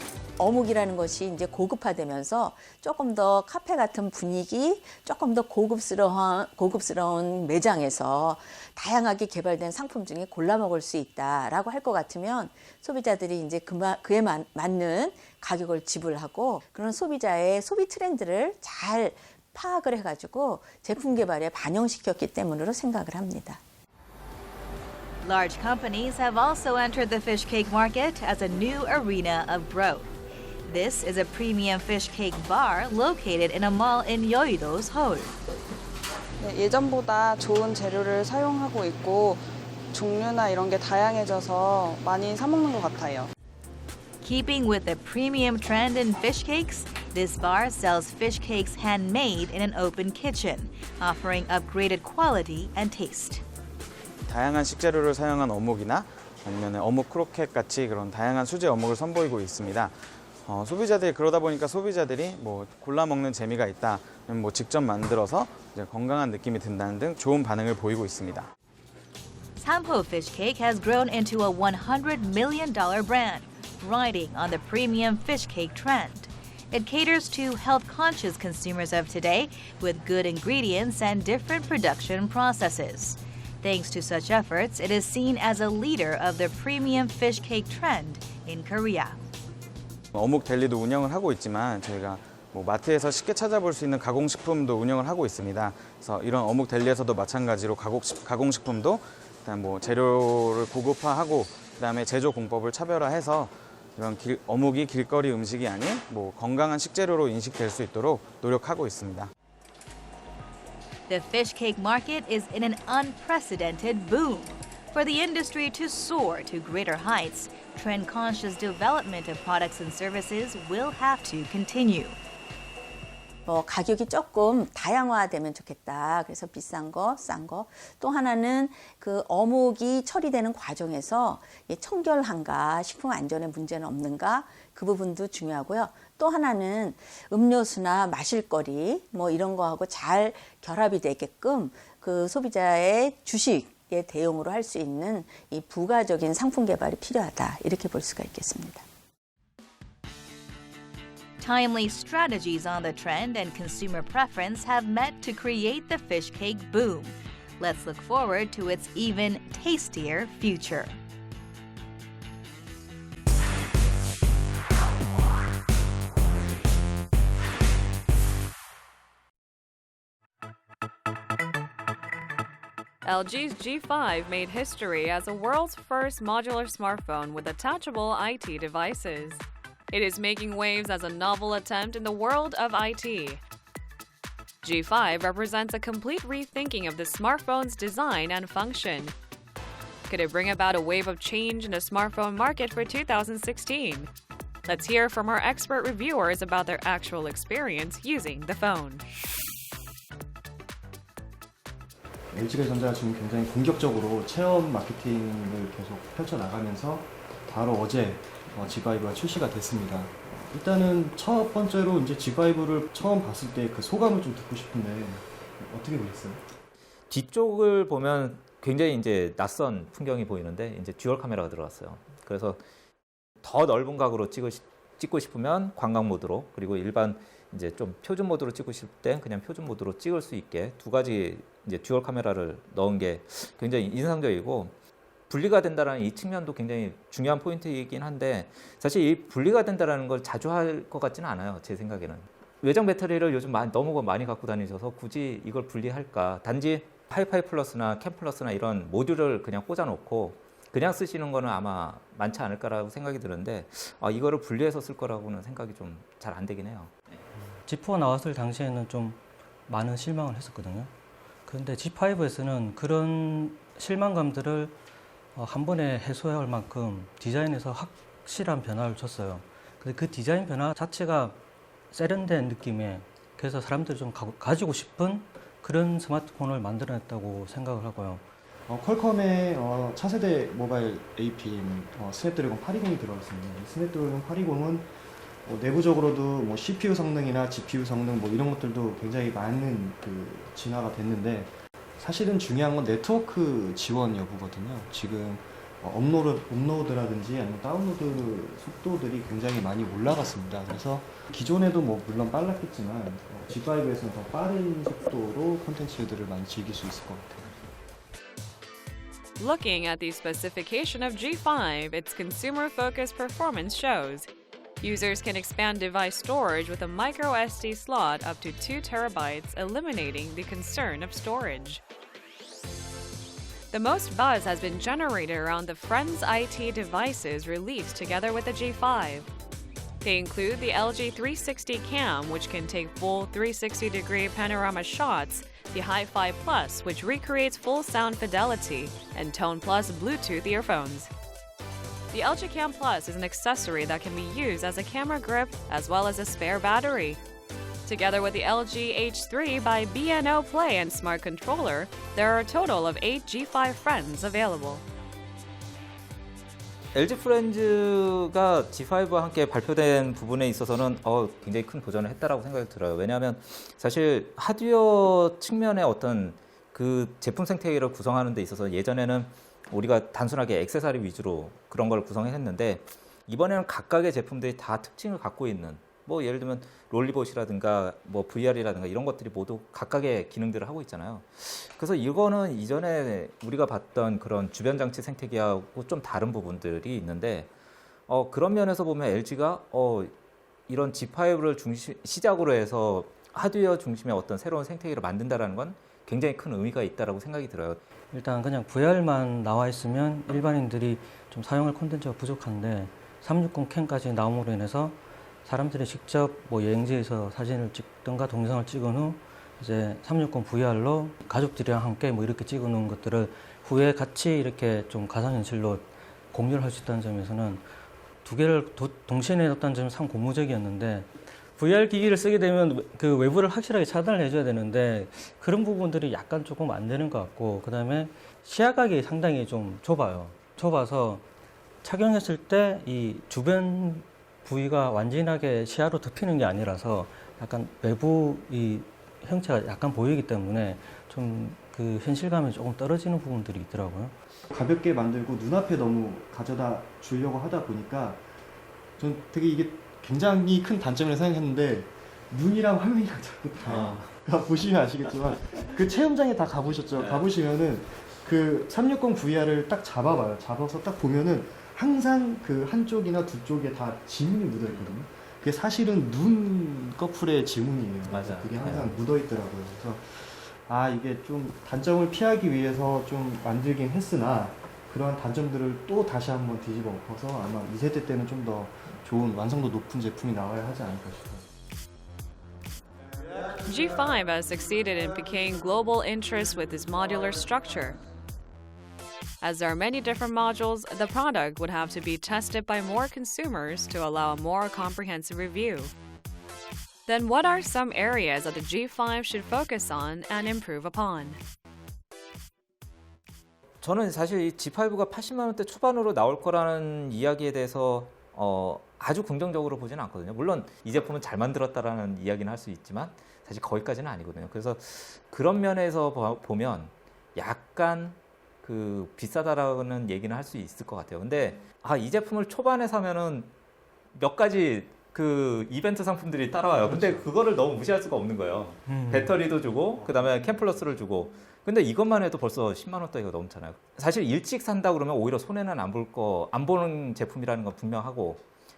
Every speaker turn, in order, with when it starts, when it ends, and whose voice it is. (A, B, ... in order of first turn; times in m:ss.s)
0:00.4-0:23.6 A
0:25.2-0:30.1 B
0:30.6-0:35.4 B
0:36.4-0:39.3 C
0:39.9-0:43.0 C
0:44.2-0:53.4 B
0:54.2-1:08.5 D
1:09.6-1:29.2 B
1:30.1-1:49.3 D
1:51.1-2:02.2 B
2:03.4-2:28.8 A
2:31.4-2:41.0 B
2:53.0-3:03.4 E
3:04.6-3:09.1 E
3:10.1-3:14.1 E
3:14.6-3:19.0 E
3:22.3-3:36.4 F
3:37.1-3:42.6 G
3:43.4-3:54.7 G
3:55.3-4:17.0 G
4:17.6-4:20.9 H
4:21.5-4:24.7 H
4:25.3-4:31.4 H
4:31.9-4:38.2 H
4:38.7-4:44.9 F
4:45.4-5:07.6 F
5:09.4-5:14.3 E
5:14.8-5:21.8 E
5:23.7-5:29.3 E
5:30.0-5:41.1 E
5:42.1-5:47.2 E
5:47.8-5:54.8 E
5:56.9-6:27.5 G
6:28.1-6:30.1 G
6:30.7-6:37.8 G
6:38.1-6:57.6 H
6:58.2-7:11.2 H
7:11.8-7:24.1 H
7:24.5-7:28.2 F
7:29.0-8:01.4 F
7:33.6-7:34.1 G
7:48.0-7:49.0 G
8:03.6-8:08.0 E
8:09.4-8:15.9 E
8:17.1-8:21.4 E
8:23.8-8:43.5 G
8:44.1-8:58.4 G
8:46.8-8:47.2 H
8:48.9-8:49.4 H